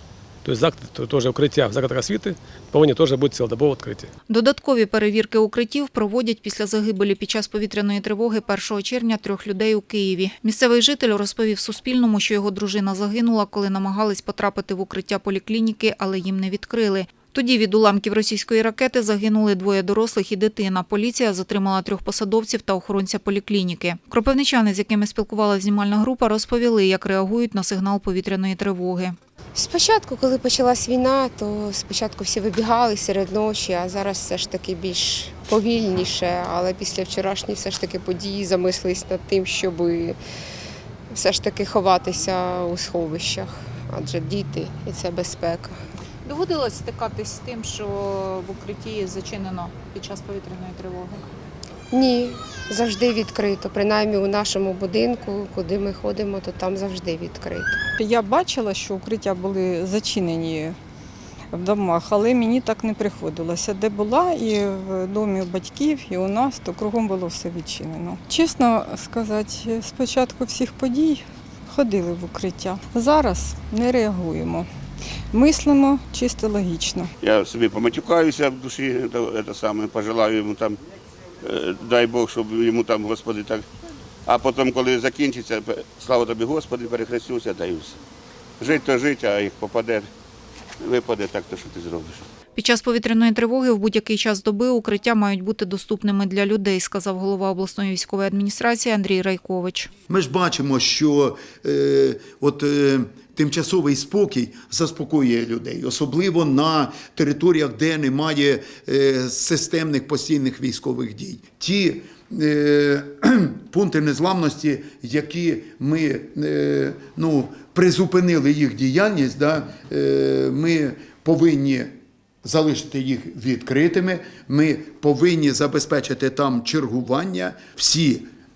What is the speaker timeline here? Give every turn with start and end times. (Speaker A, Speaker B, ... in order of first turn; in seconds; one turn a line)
Speaker A: 0.4-4.1
Speaker B: 4.3-29.1
Speaker C: 29.5-40.2
Speaker C: 41.1-45.7
Speaker B: 46.2-51.2
Speaker C: 51.9-57.8
Speaker D: 58.0-60.8
Speaker D: 61.5-74.7
Speaker D: 75.3-77.1
Speaker E: 77.2-80.8
Speaker E: 81.4-83.6
Speaker E: 84.2-88.0
Speaker E: 88.6-90.1
Speaker E: 90.8-92.2
Speaker B: 92.5-99.9
Speaker F: 100.1-121.9
Speaker F: 122.4-128.2